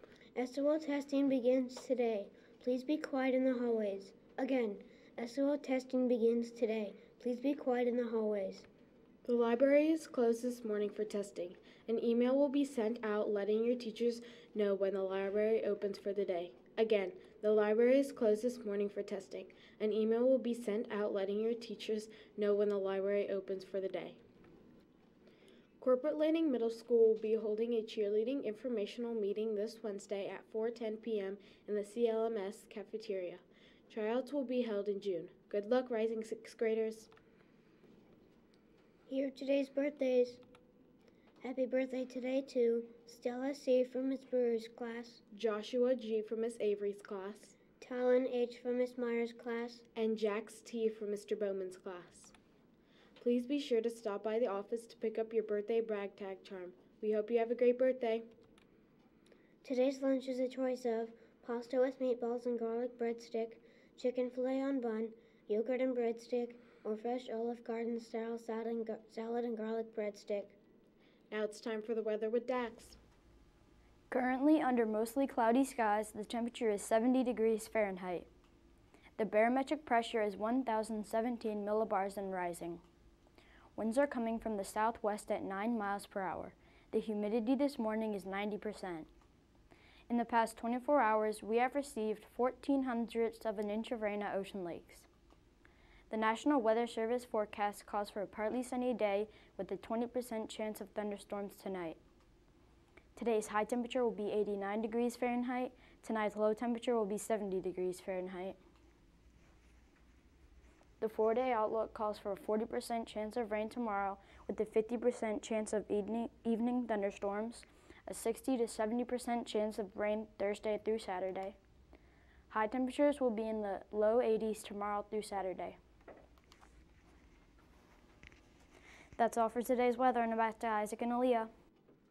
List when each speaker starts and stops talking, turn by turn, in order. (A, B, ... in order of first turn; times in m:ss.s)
0:00.4-0:08.7 A
0:09.3-0:24.2 B
0:25.8-0:37.1 B
0:39.1-0:40.4 A
0:41.4-0:45.2 A
0:45.3-0:47.6 B
0:47.8-0:49.8 A
0:50.0-0:52.3 B
0:53.2-0:58.3 B
0:59.6-1:10.6 A
1:11.3-1:13.0 B
1:14.1-1:18.3 C
1:19.2-1:22.8 C
1:23.8-1:29.1 C
1:30.1-1:35.1 C
1:36.1-1:42.0 C
1:43.2-1:48.6 C
1:51.0-2:01.6 C
2:02.5-2:05.8 C
2:09.2-2:11.5 C